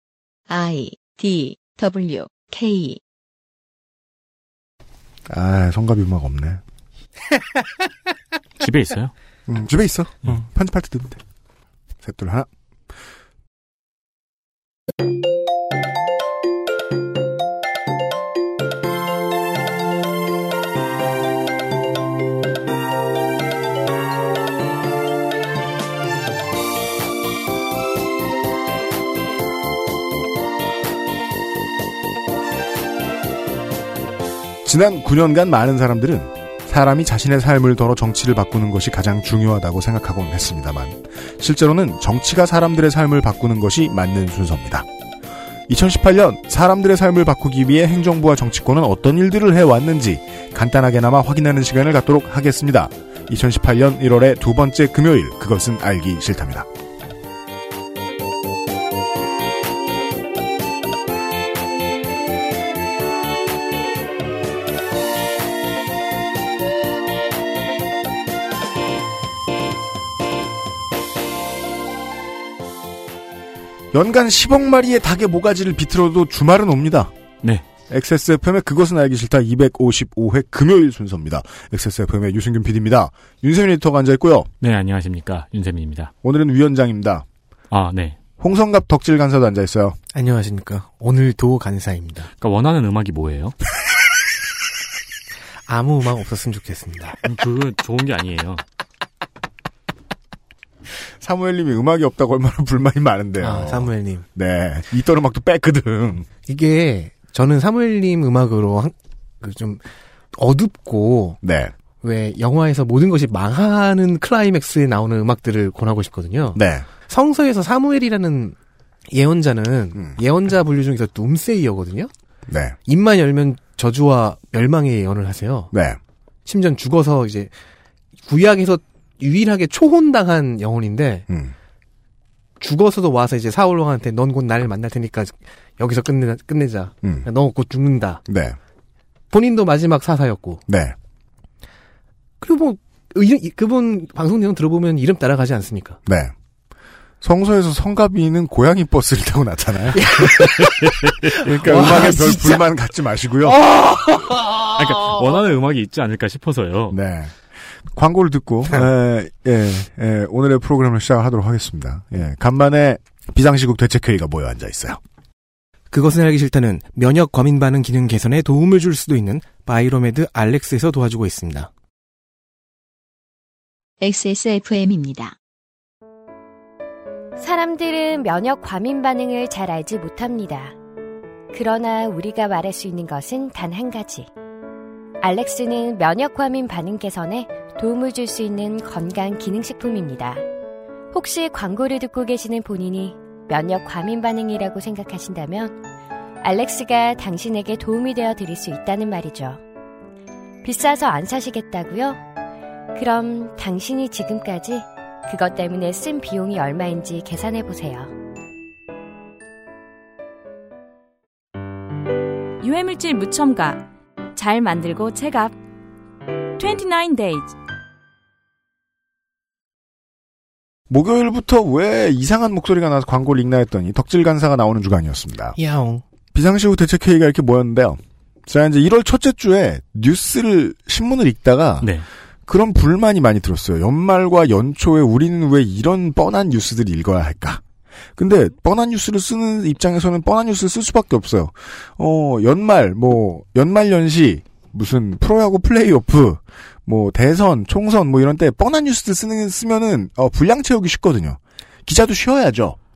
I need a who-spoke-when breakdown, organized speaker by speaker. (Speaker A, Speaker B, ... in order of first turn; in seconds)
Speaker A: 0.5-3.0, 174.0-175.4
Speaker B: 5.3-6.6, 9.5-11.2, 12.0-12.5, 34.6-44.9, 45.7-56.7, 73.9-77.1, 77.9-84.5, 86.2-87.3, 88.4-90.0, 101.2-106.3, 111.4-111.7, 116.5-116.9, 122.5-122.8, 125.7-126.0, 131.3-131.5, 138.3-138.6, 140.7-140.9, 146.1-146.3, 147.2-150.1, 151.3-153.6, 156.9-157.3, 157.9-165.0, 220.9-225.6, 226.3-237.6, 238.2-252.8
Speaker C: 8.6-9.1, 84.6-86.1, 87.7-88.2, 92.4-93.5, 97.3-98.6, 154.8-157.0
Speaker D: 90.1-92.3, 95.7-97.2, 103.4-104.2, 106.5-109.8, 110.3-111.4, 112.0-118.5, 119.1-122.1, 122.9-125.7, 126.5-127.5, 128.3-131.3, 132.6-138.2, 139.3-140.6, 142.4-146.0, 149.9-152.6, 153.7-154.3, 165.9-171.7, 225.6-226.0
Speaker E: 177.4-180.8, 181.5-184.3, 185.2-190.4, 191.1-195.7, 196.4-199.6, 200.6-202.2, 202.9-208.1
Speaker F: 212.6-215.6, 216.6-217.5